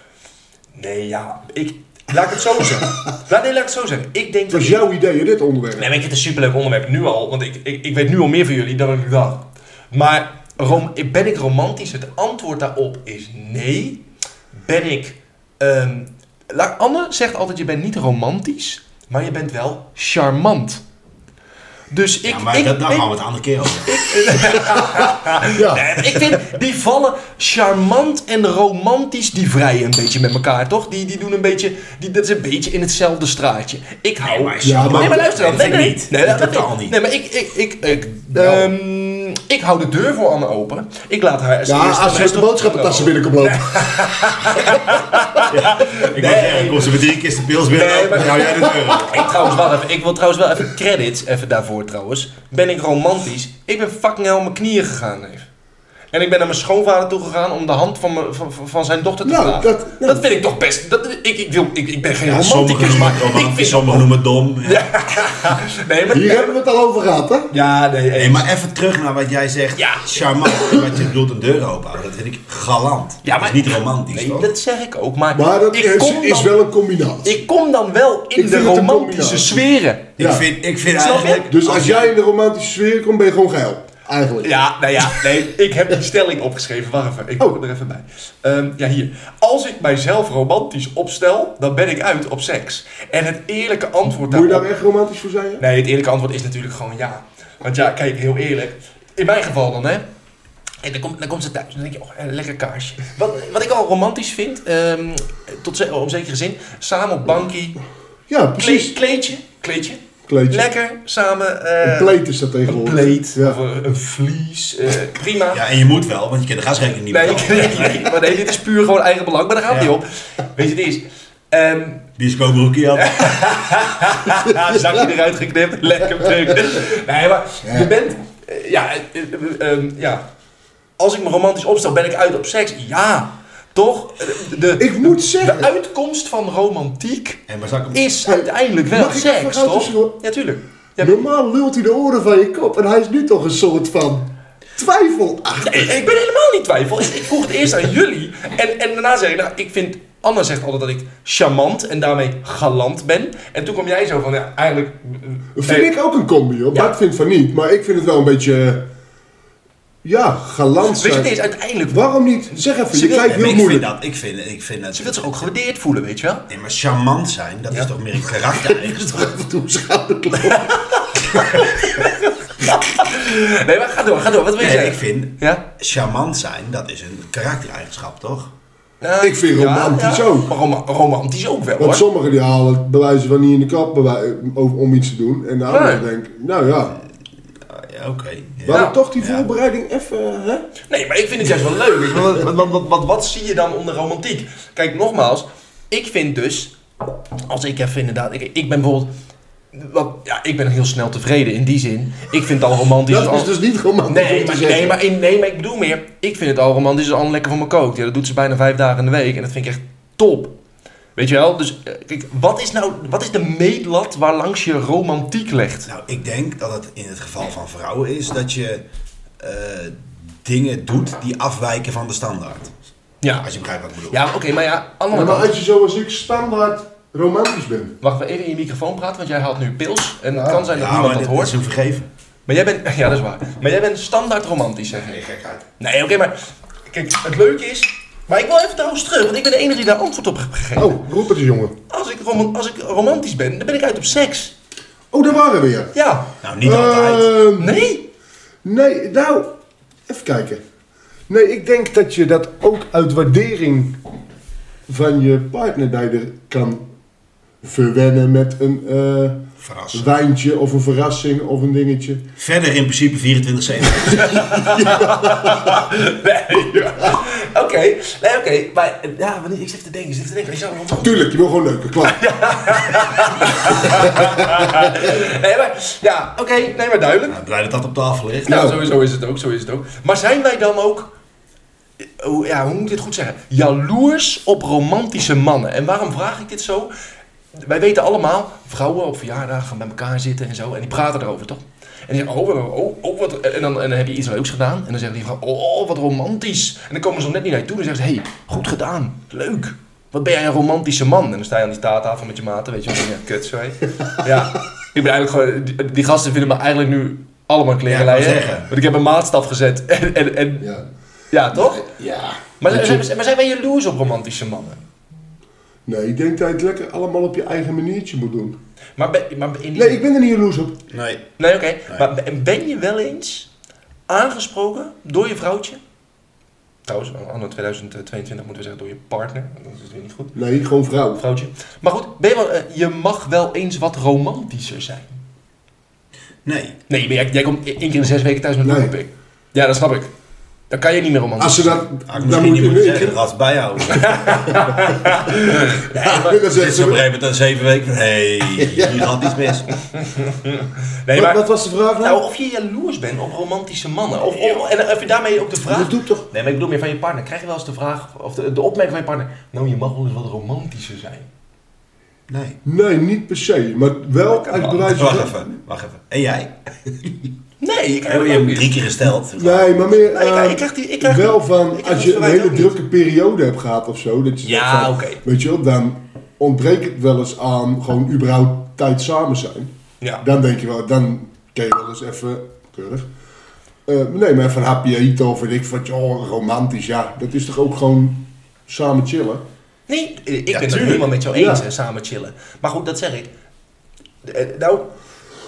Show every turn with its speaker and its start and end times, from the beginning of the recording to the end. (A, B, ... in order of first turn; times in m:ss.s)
0:00.7-0:04.8 A
0:04.5-0:05.9 B
0:05.7-0:14.0 A
0:14.5-0:20.8 A
0:21.9-0:23.1 A
0:22.2-0:24.1 C
0:23.8-0:47.0 A
0:24.8-0:26.2 B
0:34.2-0:37.0 C
0:34.6-0:35.2 B
0:38.3-0:38.7 B
0:41.6-0:43.9 B
0:45.5-0:49.4 C
0:47.6-0:55.4 A
0:56.1-1:04.1 A
0:59.2-1:00.3 B
1:02.2-1:05.0 C
1:02.3-1:03.4 B
1:04.6-1:06.5 A
1:06.1-1:07.5 B
1:07.5-1:08.5 A
1:08.1-1:14.5 C
1:09.8-1:10.5 A
1:13.2-1:16.5 A
1:15.3-1:17.4 B
1:17.2-1:20.1 A
1:18.3-1:19.6 B
1:20.2-1:20.4 B
1:20.2-1:22.1 C
1:20.9-1:21.5 A
1:21.5-1:24.5 B
1:24.4-1:34.7 A
1:34.1-1:35.6 B
1:35.6-1:40.0 A
1:40.8-1:47.8 A
1:48.3-1:49.0 B
1:48.6-1:55.6 A
1:50.3-1:50.6 B
1:51.8-1:53.6 B
1:55.5-1:58.1 C
1:57.1-2:02.1 A
2:02.2-2:03.4 C
2:02.9-2:10.2 A
2:07.6-2:07.9 B
2:11.0-2:21.2 A
2:14.8-2:15.7 B
2:17.5-2:18.0 C
2:18.2-2:20.2 B
2:21.0-2:25.9 B
2:25.6-2:35.9 A
2:35.6-2:38.8 B
2:40.0-2:41.3 B
2:40.9-2:43.5 A
2:41.9-2:43.9 B
2:43.2-2:45.5 C
2:44.9-2:46.4 A
2:46.5-2:49.0 C
2:48.6-2:50.8 B
2:50.4-2:55.6 A
2:51.3-2:51.6 B
2:54.6-2:58.5 C
2:59.0-3:02.0 A
2:59.2-3:00.5 B
3:01.8-3:07.0 B
3:05.7-3:06.0 A
3:07.7-3:09.4 C
3:08.6-3:10.7 B
3:08.7-3:09.0 A
3:10.9-3:16.7 A
3:17.5-3:19.1 A
3:19.7-3:23.5 A
3:23.1-3:25.0 B
3:24.0-3:30.6 A
3:31.2-3:35.9 A
3:35.8-3:38.8 C
3:39.4-3:42.7 C
3:43.2-3:43.5 A
3:43.4-3:44.2 C
3:44.1-3:45.5 A
3:45.1-3:48.0 B
3:48.0-3:51.5 A
3:50.3-3:50.6 B
3:50.7-3:52.1 C
3:52.5-3:55.2 A
3:55.1-3:55.6 C
3:55.8-3:56.4 A
3:56.9-4:01.0 A
4:00.8-4:01.7 B
4:01.9-4:04.5 A
4:05.1-4:05.9 B
4:05.9-4:06.3 A
4:06.4-4:07.4 C
4:06.6-4:07.8 B
4:07.6-4:08.0 A
4:08.6-4:09.5 B
4:10.1-4:10.6 B
4:11.3-4:14.0 B
4:14.9-4:16.8 B
4:17.6-4:22.2 B
4:19.6-4:20.1 C
4:22.4-4:24.4 C
4:24.0-4:31.3 A
4:24.2-4:25.8 B
4:31.0-4:32.2 B
4:32.0-4:37.4 A
4:33.8-4:34.9 B
4:37.3-4:38.7 C
4:38.4-4:41.1 A
4:38.5-4:38.9 B
4:42.0-4:46.9 A
4:47.5-5:10.7 A
5:07.9-5:08.7 C
5:10.6-5:10.9 B
5:11.3-5:11.9 A
5:11.5-5:13.0 B
5:12.6-5:14.8 A
5:15.8-5:18.6 B
5:19.0-5:20.0 A
5:19.7-5:20.8 B
5:20.9-5:21.3 C
5:21.4-5:23.5 A
5:24.1-5:25.8 A
5:26.8-5:30.3 A
5:30.3-5:31.2 B
5:31.2-5:35.2 A
5:36.4-5:36.8 C
5:36.9-5:40.1 A
5:38.6-5:38.9 B
5:40.7-5:41.8 A
5:41.4-5:43.1 B
5:42.1-5:44.4 C
5:43.9-5:46.4 A
5:45.3-5:47.0 B
5:46.5-5:49.7 C
5:48.6-5:49.3 B
5:49.9-5:51.4 A
5:51.1-5:52.2 B
5:52.0-6:01.3 A
5:55.6-5:56.3 B
6:02.3-6:02.6 C
6:02.6-6:05.4 B
6:04.3-6:04.9 A
6:04.8-6:07.3 C
6:07.6-6:08.8 A
6:08.0-6:10.0 C
6:09.2-6:23.1 B
6:10.1-6:12.7 A
6:14.4-6:15.2 A
6:23.9-6:29.4 B
6:29.9-6:33.3 A
6:30.5-6:31.1 C
6:31.3-6:31.6 B
6:34.2-6:34.9 A